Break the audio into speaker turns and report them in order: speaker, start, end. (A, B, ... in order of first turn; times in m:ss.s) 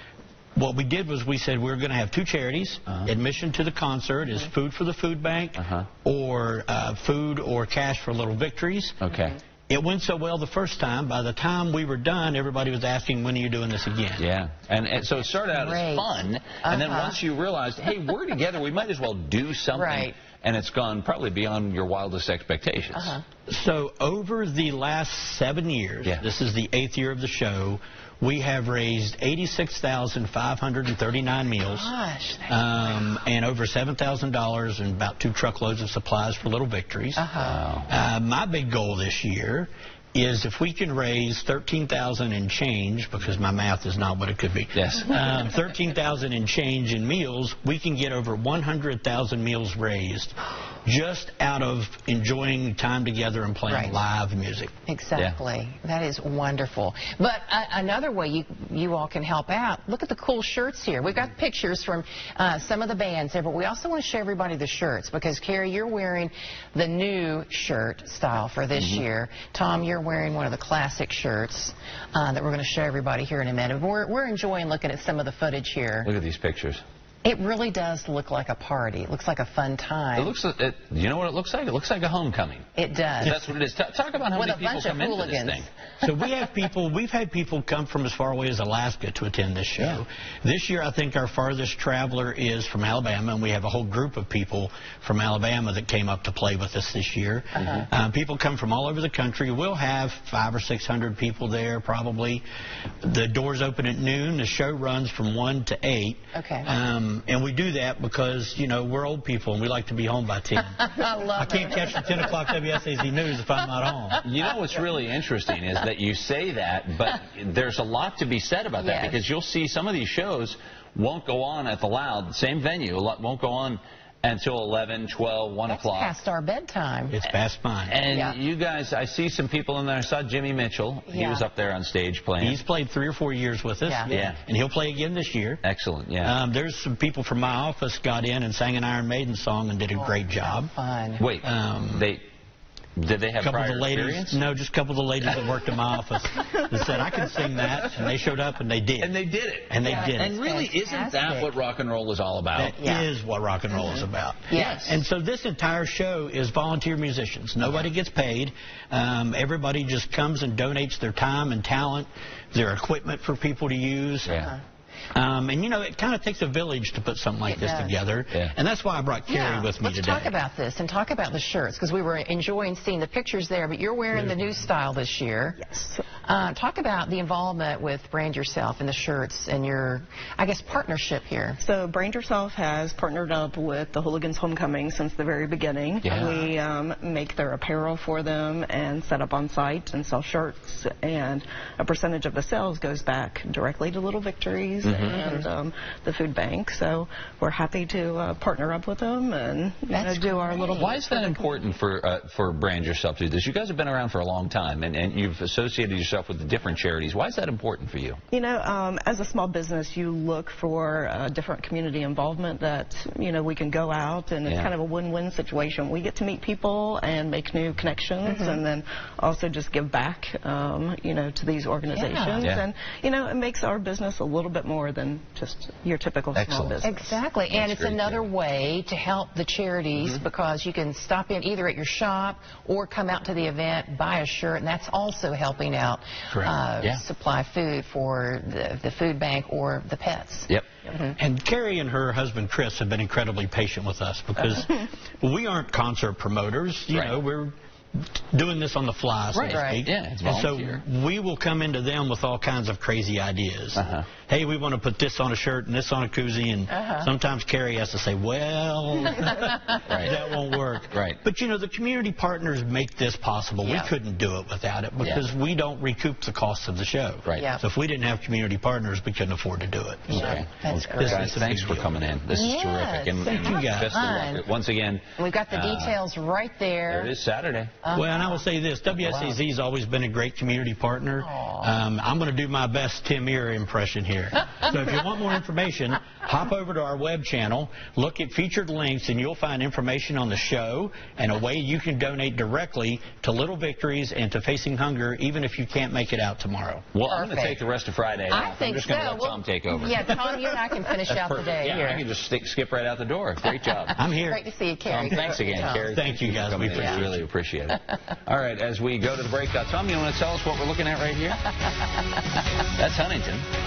0:00.6-0:09.0 A
0:05.6-0:05.9 B
0:09.0-0:09.4 B
0:09.7-0:14.3 A
0:14.2-0:23.2 B
0:15.5-0:17.2 C
0:19.7-0:20.2 C
0:22.9-0:23.2 C
0:23.5-0:31.9 A
0:31.6-0:32.8 C
0:32.5-0:37.3 A
0:37.2-0:37.6 C
0:37.4-0:38.0 B
0:37.9-0:54.7 A
0:44.8-0:45.5 B
0:53.7-0:54.0 C
0:54.9-1:16.1 C
1:16.0-1:16.8 B
1:17.2-1:20.3 C
1:20.2-1:22.7 B
1:22.8-1:23.5 C
1:23.2-1:25.7 B
1:24.3-1:25.7 C
1:26.0-1:42.4 A
1:37.6-1:37.9 C
1:37.6-1:37.8 B
1:43.0-1:54.2 A
1:46.3-1:46.7 C
1:50.8-1:52.4 C
1:54.2-2:06.2 B
1:58.8-1:59.2 C
2:05.7-2:07.3 C
2:07.1-2:08.0 A
2:07.9-2:12.6 B
2:08.1-2:08.4 C
2:11.1-2:11.5 C
2:12.4-2:15.6 A
2:13.8-2:14.1 C
2:14.1-2:14.4 B
2:15.6-2:16.4 B
2:16.2-2:20.7 A
2:20.0-2:21.2 C
2:21.2-2:22.2 B
2:21.4-2:22.1 A
2:23.0-2:24.4 B
2:23.4-2:29.1 A
2:29.0-2:32.8 B
2:29.7-2:30.4 A
2:29.8-2:31.5 C
2:32.6-2:44.5 A
2:32.8-2:33.1 C
2:33.8-2:35.0 C
2:34.5-2:35.0 B
2:44.3-2:44.5 B
2:45.1-2:50.3 A
2:47.5-2:48.0 C
2:49.3-2:55.6 C
2:55.6-2:56.0 D
2:56.2-3:01.6 C
3:01.6-3:21.7 D
3:06.0-3:06.5 B
3:14.8-3:15.2 B
3:15.0-3:15.4 C
3:19.9-3:21.0 C
3:20.7-3:28.2 B
3:28.3-3:47.2 D
3:34.4-3:34.7 B
3:38.3-3:38.6 C
3:41.9-3:42.5 C
3:42.4-3:42.7 B
3:46.3-3:46.8 B
3:46.8-4:01.2 C
3:47.5-3:48.3 B
3:50.0-3:50.2 B
4:01.2-4:07.5 A
4:06.9-4:07.2 B
4:08.2-4:30.4 A
4:09.3-4:10.8 B
4:09.5-4:09.9 C
4:13.8-4:14.1 B
4:16.7-4:17.1 C
4:19.9-4:20.2 B
4:20.9-4:21.2 B
4:23.6-4:23.9 C
4:25.0-4:25.3 B
4:27.4-4:27.6 C
4:30.1-4:36.0 B
4:30.1-4:31.3 C
4:31.0-4:31.9 A
4:32.3-4:34.5 C
4:33.2-4:34.0 A
4:35.2-4:37.1 C
4:36.9-4:37.7 B
4:37.8-4:38.4 C
4:37.9-4:56.9 A
4:41.2-4:41.8 C
4:56.9-5:00.1 B
4:57.1-4:57.6 C
4:58.3-5:02.0 C
5:01.1-5:04.0 B
5:04.0-5:04.5 A
5:04.3-5:05.9 C
5:04.9-5:11.5 B
5:05.8-5:07.2 A
5:06.7-5:07.0 C
5:12.8-5:13.5 B